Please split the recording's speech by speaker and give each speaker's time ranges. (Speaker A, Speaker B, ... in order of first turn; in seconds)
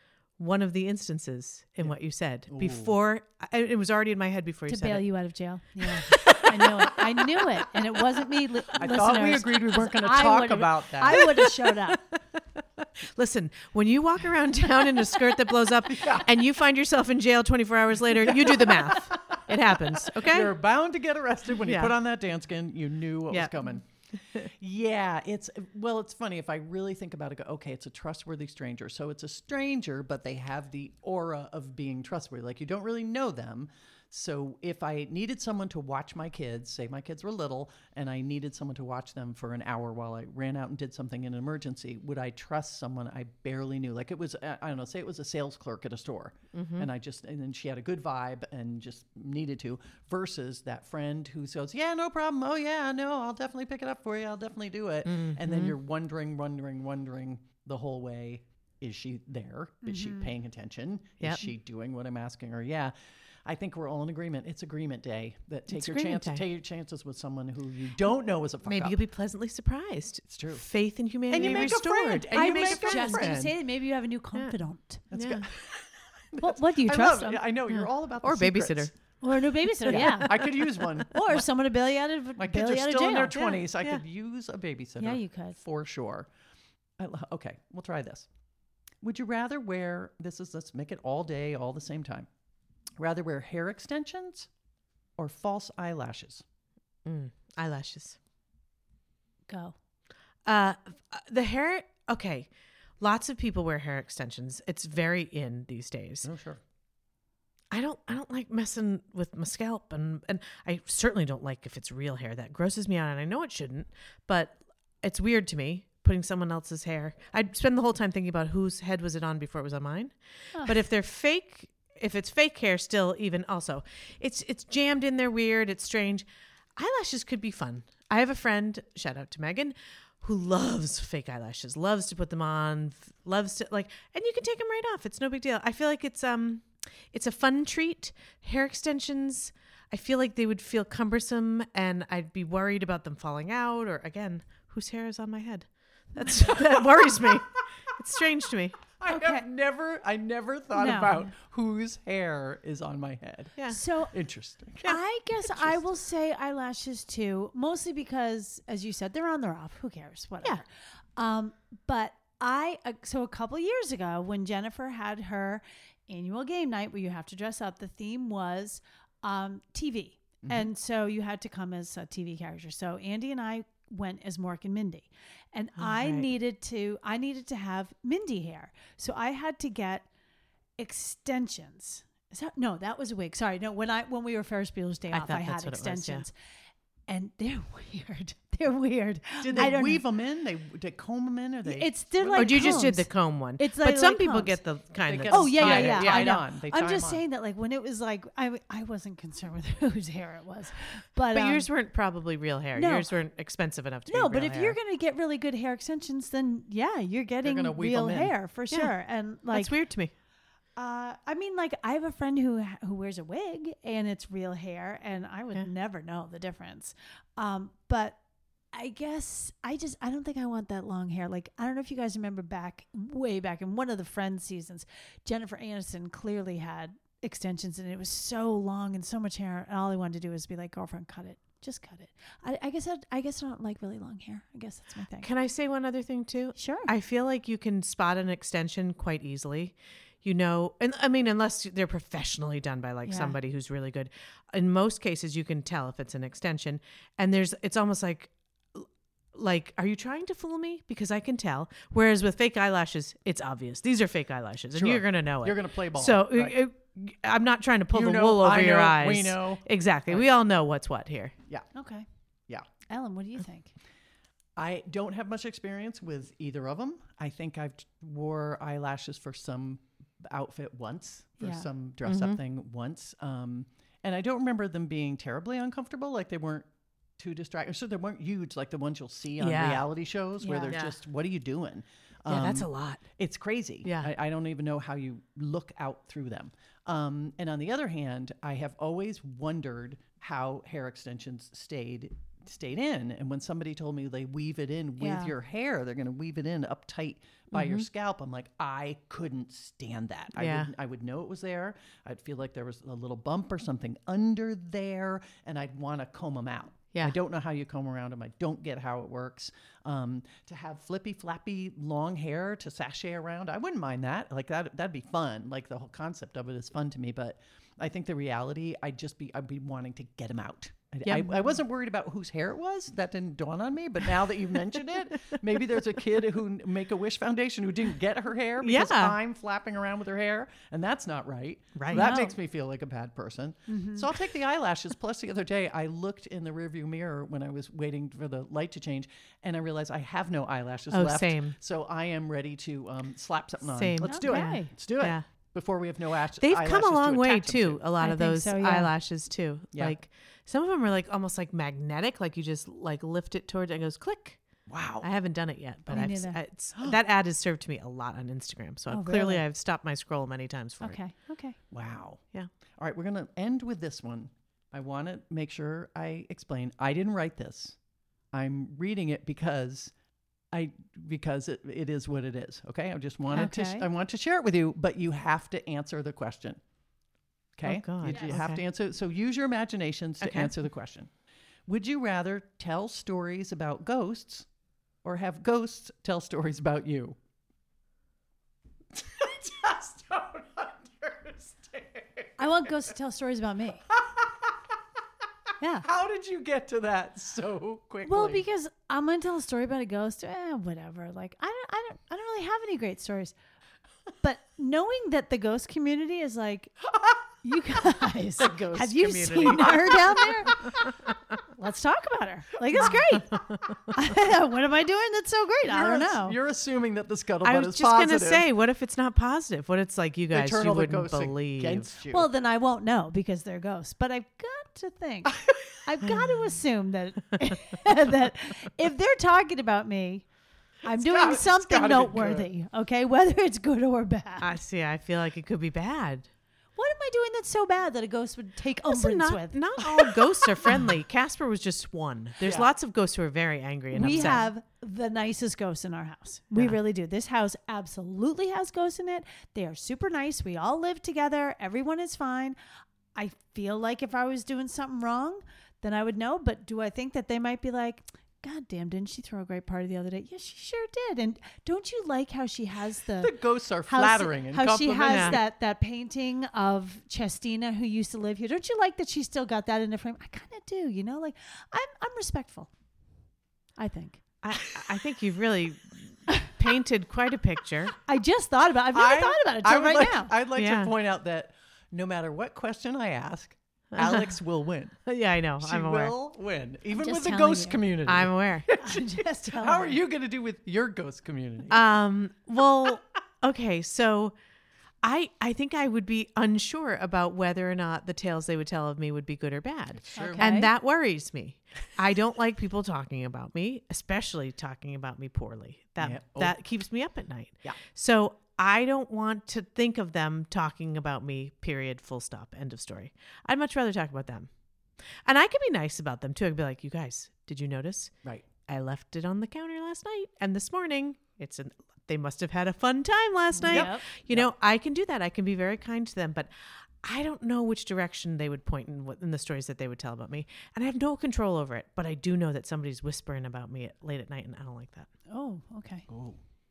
Speaker A: 0.4-5.0, 5.9-6.7, 11.1-20.6, 21.6-21.9, 23.3-23.7, 46.5-46.9, 55.0-55.8, 61.2-61.5, 65.7-66.4, 68.6-73.4, 75.1-75.5, 77.7-78.9, 79.8-80.5, 83.4-84.0, 97.0-98.2, 100.4-106.3, 107.7-148.8, 175.8-176.3, 185.1-186.2, 192.3-196.4, 201.3-204.8, 209.5-210.1, 235.2-261.3, 272.0-272.4, 279.4-279.9, 280.7-280.9, 282.2-283.0, 283.8-284.1, 297.5-297.9, 300.3-300.7, 321.0-321.3, 328.6-329.1, 331.8-332.1, 340.9-341.6, 343.7-345.2, 346.4-354.4, 355.0-361.0, 377.6-378.6, 380.2-380.5, 408.9-411.1, 412.8-413.8, 417.4-421.9, 434.4-436.3, 438.9-444.5, 465.1-465.4, 474.4-477.9, 480.6-480.9, 483.9-484.3, 485.1-486.1, 488.1-488.7, 491.7-494.3, 495.0-514.5, 515.2-518.1, 518.6-535.1
Speaker B: 2.5-2.9, 8.7-11.3, 15.8-16.3, 18.2-23.8, 24.4-62.9, 63.5-69.0, 70.2-70.6, 71.3-73.5, 75.1-78.9, 79.8-81.4, 82.4-86.3, 87.0-88.3, 89.0-92.3, 93.0-94.5, 95.2-96.4, 106.2-106.6, 146.3-147.3, 149.0-155.8, 189.4-192.9, 195.1-197.2, 207.4-208.3, 254.7-256.6, 257.9-260.3, 264.6-347.8, 349.7-350.0, 354.7-355.1, 361.7-362.2, 362.8-367.8, 368.3-369.9, 370.5-376.6, 377.6-381.1, 381.7-384.5, 385.0-387.1, 388.9-392.4, 393.9-394.5, 395.8-398.4, 408.4-410.2, 415.7-418.4, 420.3-422.3, 425.3-425.8, 430.8-432.5, 442.4-442.7, 444.0-444.4, 463.2-465.4, 478.9-485.0, 485.6-491.9, 499.9-500.5, 506.0-506.6, 523.6-524.5, 536.1-536.4
Speaker C: 4.7-12.0, 59.9-60.3, 71.4-71.8, 72.3-75.0, 76.4-77.4, 79.2-83.4, 85.0-85.6, 99.5-99.7, 149.1-149.4, 150.7-151.3, 153.7-154.1, 154.8-160.7, 161.2-180.1, 180.8-186.3, 187.1-190.0, 191.6-194.6, 195.3-201.7, 202.8-203.1, 204.1-209.8, 210.8-218.2, 218.7-235.3, 236.6-236.9, 243.1-243.3, 261.7-262.1, 262.9-263.7, 271.4-271.7, 280.4-280.7, 295.0-295.3, 331.9-332.3, 333.7-334.1, 344.0-344.7, 348.0-348.9, 355.9-356.4, 358.9-359.4, 360.8-361.6, 373.3-373.9, 392.4-393.8, 395.6-395.8, 398.1-403.3, 404.2-406.8, 407.4-410.8, 411.5-416.4, 422.1-430.2, 430.8-434.5, 436.8-439.6, 443.9-452.6, 453.1-463.3, 463.9-472.7, 473.8-474.2, 478.0-480.3, 486.9-487.9, 488.8-490.0, 500.1-500.7, 523.5-524.0, 535.3-536.1